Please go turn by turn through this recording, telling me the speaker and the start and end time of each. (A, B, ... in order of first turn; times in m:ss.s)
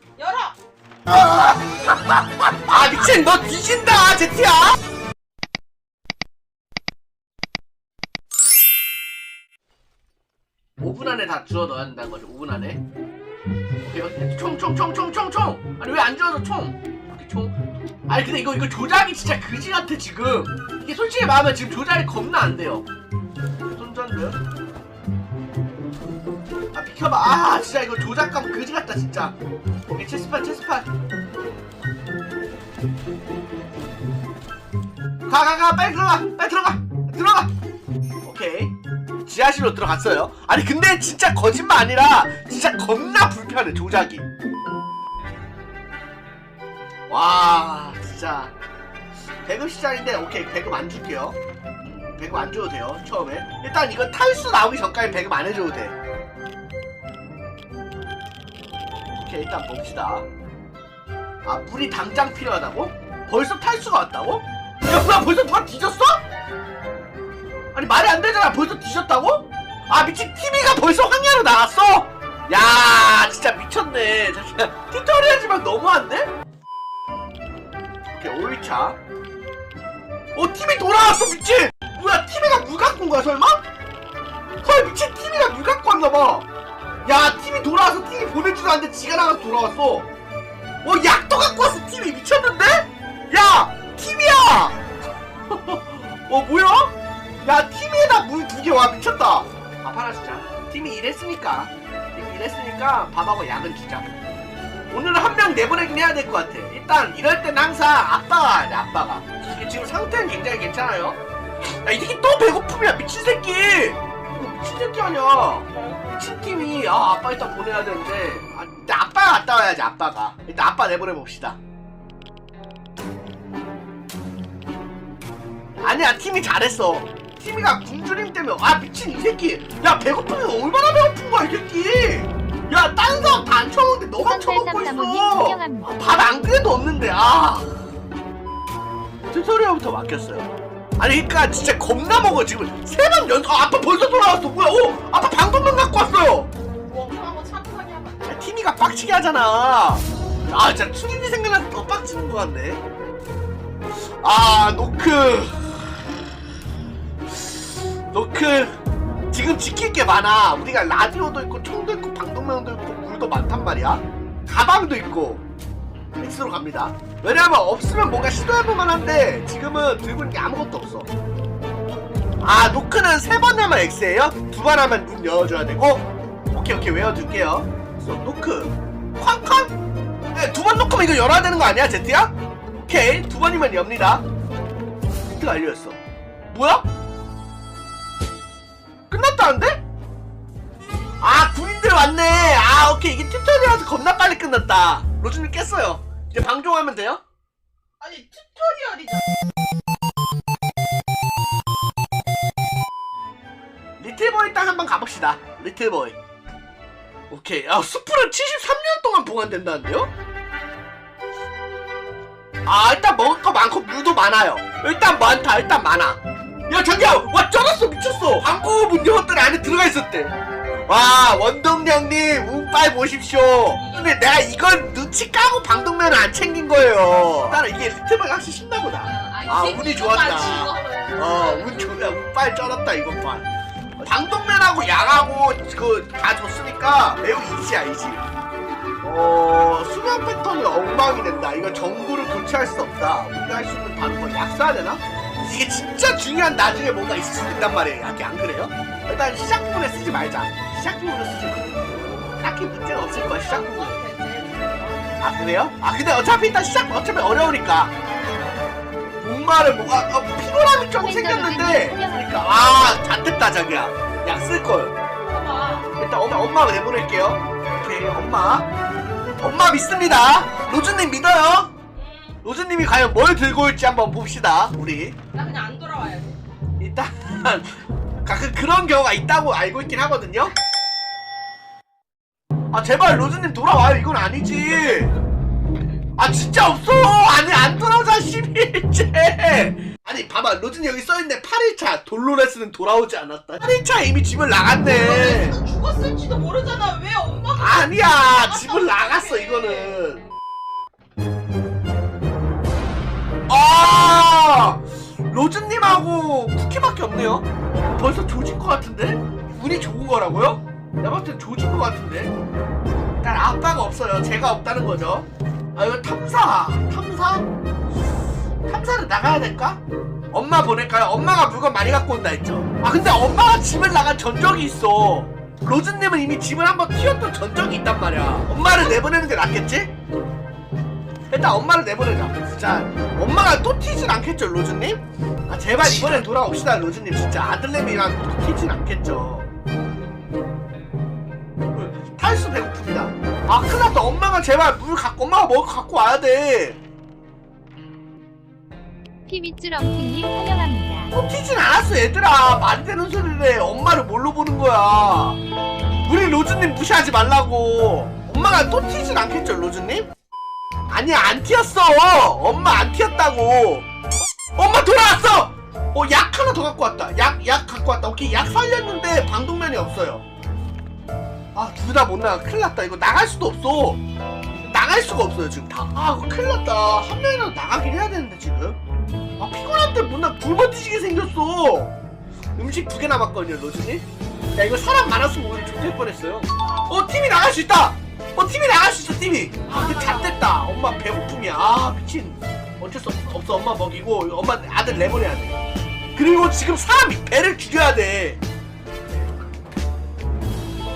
0:00.2-0:00.6 A
0:01.1-0:01.5 B
0:02.4-0:04.8 B
0:10.8-0:12.8 B
0:13.8-0:17.6 B
0:18.1-0:22.8 B
0:23.7-0:24.4 B
0:26.7-0:29.3 B
0:29.9-0:30.9 B
0:35.2-0:37.5 B
0:38.2-0:38.7 B
0:39.2-0:44.2 B
0:47.1-0:48.5 B
0:49.4-0:51.4 B
0:52.1-0:55.9 B
0:59.1-1:00.3 B
1:01.4-1:06.2 B
1:07.7-1:16.3 B
1:18.1-1:19.0 B
1:20.3-1:23.6 B
1:24.6-1:26.5 B
1:27.0-1:30.1 B
1:30.8-1:34.8 B
1:35.5-1:44.1 B
1:44.9-2:01.6 B
2:05.8-2:17.9 B
2:14.2-2:16.1 C
2:19.3-2:26.5 B
2:26.8-2:28.4 A
2:28.3-2:32.8 B
2:34.2-2:35.8 B
2:38.1-2:38.8 B
2:39.3-2:45.4 B
2:46.2-2:51.1 B
2:52.4-2:59.7 B
3:00.3-3:04.2 B
3:05.3-3:06.0 B
3:06.5-3:06.8 B
3:09.1-3:09.8 B
3:11.2-3:17.2 B
3:18.0-3:19.3 A
3:24.0-3:26.2 B
3:27.3-3:30.1 B
3:32.6-3:40.3 B
3:40.9-3:53.5 B
3:43.8-3:44.3 A
3:49.0-3:51.8 A
3:54.0-3:58.2 B
3:59.0-4:14.0 B
4:13.1-4:15.1 A
4:15.2-4:17.9 B
4:19.2-4:24.9 B
4:21.0-4:22.7 C
4:25.1-4:25.9 A
4:26.0-4:28.7 B
4:29.4-4:31.7 B
4:32.0-4:32.4 A
4:32.4-4:35.2 B
4:35.3-4:36.4 A
4:36.8-4:40.5 B
4:42.7-4:45.1 B
4:46.2-4:55.6 B
4:54.8-4:59.9 A
4:57.5-5:00.2 B
5:03.5-5:12.3 B
5:13.2-5:17.5 B
5:18.6-5:29.9 B
5:31.3-5:39.5 B
5:41.7-5:46.8 B
5:49.2-5:51.1 C
5:51.1-5:55.4 B
5:56.0-6:00.1 B
6:00.9-6:03.9 B
6:04.6-6:10.2 B
6:11.5-6:14.0 B
6:14.7-6:18.8 B
6:19.4-6:21.9 B
6:22.5-6:35.6 B
6:29.6-6:30.4 A
6:36.1-6:38.4 B